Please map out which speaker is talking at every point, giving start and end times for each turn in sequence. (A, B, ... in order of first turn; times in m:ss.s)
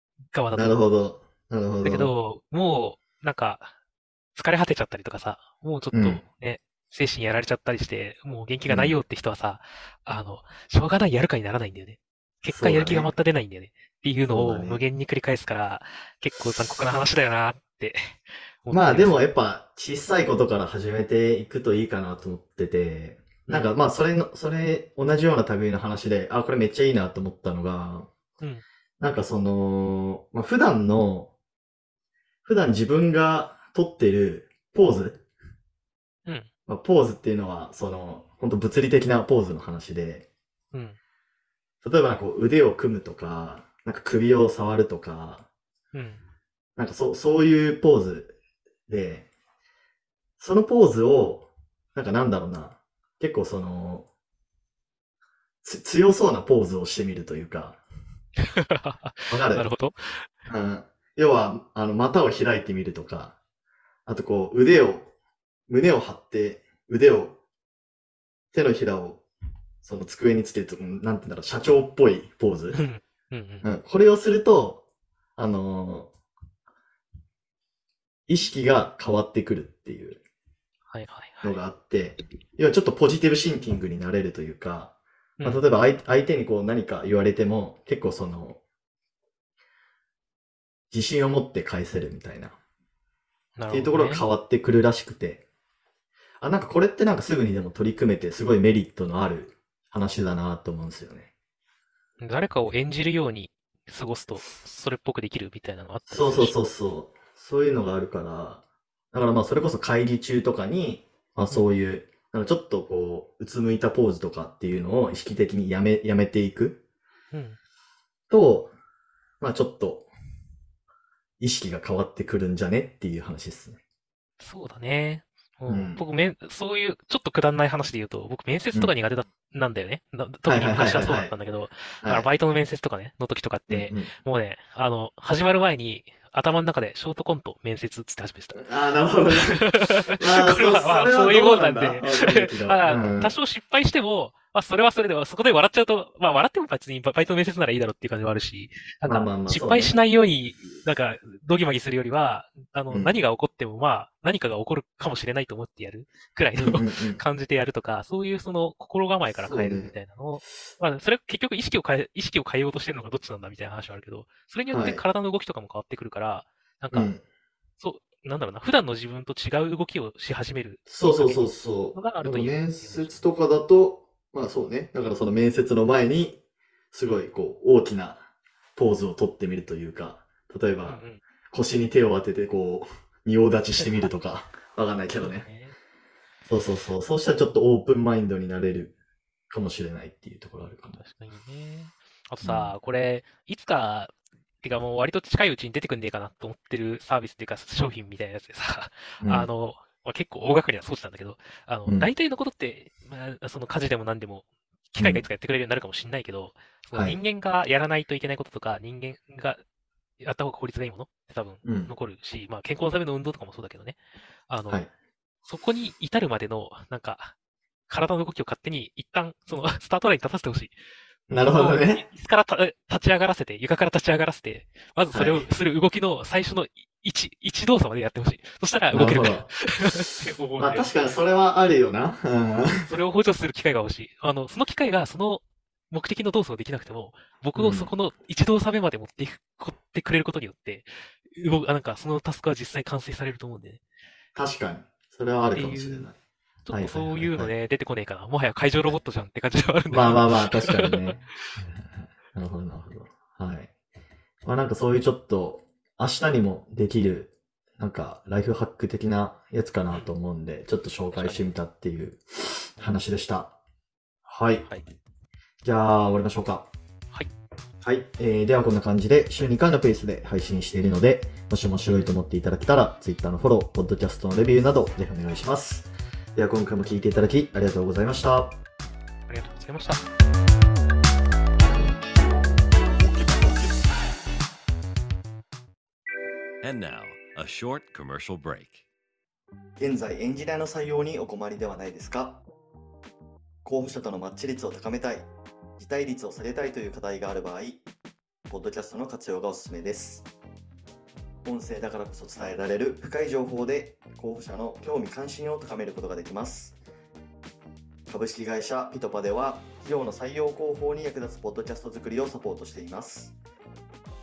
0:00.3-0:00.8 A
0:00.5-0:02.1 B
0:01.8-0:03.7 A
0:04.4-0:19.2 A
0:05.9-0:06.2 B
0:08.7-0:09.0 B
0:12.5-0:13.1 B
0:14.3-0:14.8 B
0:18.7-0:28.1 B
0:29.0-0:31.3 B
0:32.4-0:35.2 B
0:36.7-0:40.3 B
0:41.8-0:45.5 B
0:45.9-0:46.2 A
0:46.8-0:48.4 B
0:48.9-0:49.3 B
0:50.4-0:54.1 B
0:55.6-0:57.8 B
0:58.6-1:00.3 A
0:59.3-0:59.7 B
1:00.5-1:03.4 B
1:04.1-1:05.1 B
1:05.7-1:07.4 B
1:08.5-1:09.2 B
1:09.8-1:12.8 B
1:12.7-1:13.7 A
1:13.6-1:14.8 B
1:15.4-1:16.1 B
1:18.3-1:20.2 B
1:20.9-1:21.6 A
1:21.4-1:28.6 B
1:25.4-1:25.7 A
1:30.9-1:32.6 B
1:33.6-1:34.2 A
1:33.7-1:35.4 B
1:36.4-1:41.3 B
1:42.2-1:46.6 A
1:46.1-1:56.8 B
1:57.3-1:57.6 A
1:58.3-1:58.7 B
1:59.4-2:00.1 B
2:01.4-2:03.8 B
2:04.4-2:18.6 A
2:05.7-2:06.0 B
2:10.5-2:11.3 B
2:12.0-2:12.3 B
2:13.7-2:14.1 B
2:18.6-2:23.4 B
2:19.5-2:47.1 A
2:29.1-2:29.9 B
2:36.6-2:37.2 B
2:39.3-2:39.9 B
2:44.7-2:45.0 B
2:46.9-2:47.2 B
2:47.8-2:53.2 A
2:50.9-2:56.4 B
2:56.9-2:58.2 B
2:58.8-3:05.5 B
3:00.8-3:01.2 A
3:05.2-3:05.7 A
3:06.5-3:09.0 B
3:09.5-3:11.0 B
3:11.0-3:29.6 A
3:12.4-3:12.7 B
3:19.2-3:19.5 B
3:25.0-3:25.3 B
3:26.9-3:27.2 B
3:30.2-3:34.8 A
3:31.6-3:31.9 B
3:35.4-3:37.4 A
3:37.9-3:40.8 A
3:41.3-3:42.0 B
3:41.4-3:50.9 A
3:45.1-3:45.5 B
3:48.9-3:49.6 B
3:50.6-3:52.9 B
3:52.9-4:03.8 A
3:57.6-3:57.9 B
4:04.4-4:06.2 B
4:05.5-4:06.1 A
4:06.7-4:11.0 A
4:06.7-4:07.5 B
4:09.9-4:13.7 B
4:14.5-4:23.6 B
4:21.1-4:21.5 A
4:24.3-4:24.7 B
4:25.6-4:26.7 B
4:27.8-4:38.6 B
4:39.3-4:40.0 A
4:43.0-4:43.8 C
4:46.6-4:48.8 C
4:49.8-4:52.4 B
4:53.6-4:57.8 B
4:58.5-5:00.3 B
5:01.4-5:06.8 B
5:08.1-5:13.4 B